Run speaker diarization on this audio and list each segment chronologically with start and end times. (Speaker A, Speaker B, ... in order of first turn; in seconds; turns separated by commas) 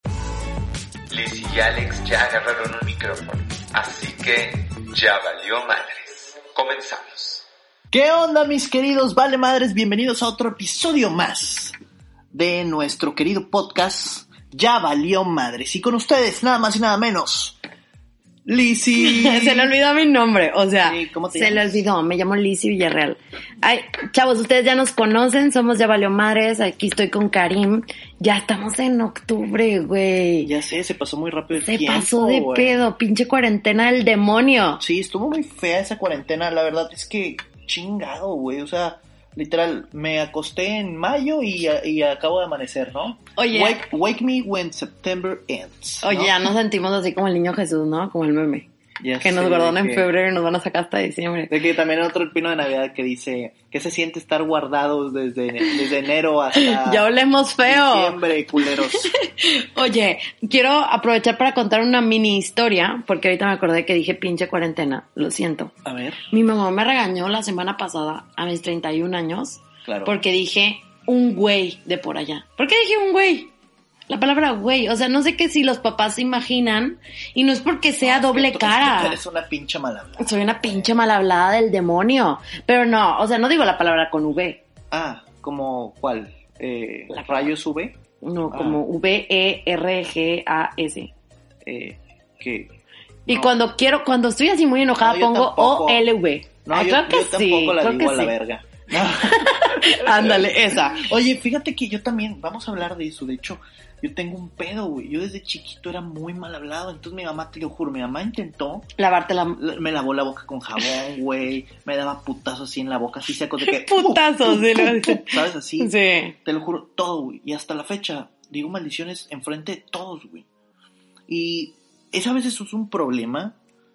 Speaker A: 1.1-7.5, Speaker B: 7.9-11.7, Speaker B: 12.3-17.6, Speaker B: 18.4-19.7, Speaker C: 19.0-30.5, Speaker B: 20.8-21.8, Speaker B: 30.4-32.8, Speaker C: 31.5-34.8, Speaker B: 34.8-46.5, Speaker C: 43.4-43.8, Speaker C: 46.0-48.7, Speaker B: 49.0-50.1, Speaker C: 49.2-51.5, Speaker B: 51.5-57.0, Speaker C: 56.5-58.2, Speaker B: 57.6-59.1, Speaker C: 58.8-65.7, Speaker B: 65.8-66.2, Speaker C: 66.3-73.5, Speaker B: 69.8-70.2, Speaker C: 74.1-79.2, Speaker B: 78.0-80.9, Speaker C: 80.2-84.6, Speaker B: 84.9-88.0, Speaker C: 87.1-87.5, Speaker C: 88.2-91.1, Speaker B: 88.5-88.8, Speaker B: 91.6-92.7, Speaker B: 93.3-93.6, Speaker C: 93.3-98.3, Speaker B: 95.0-96.0, Speaker B: 96.7-108.9, Speaker C: 99.0-101.1, Speaker C: 109.0-109.6, Speaker B: 109.6-115.9, Speaker C: 113.6-116.3, Speaker B: 116.4-120.5, Speaker B: 121.3-123.5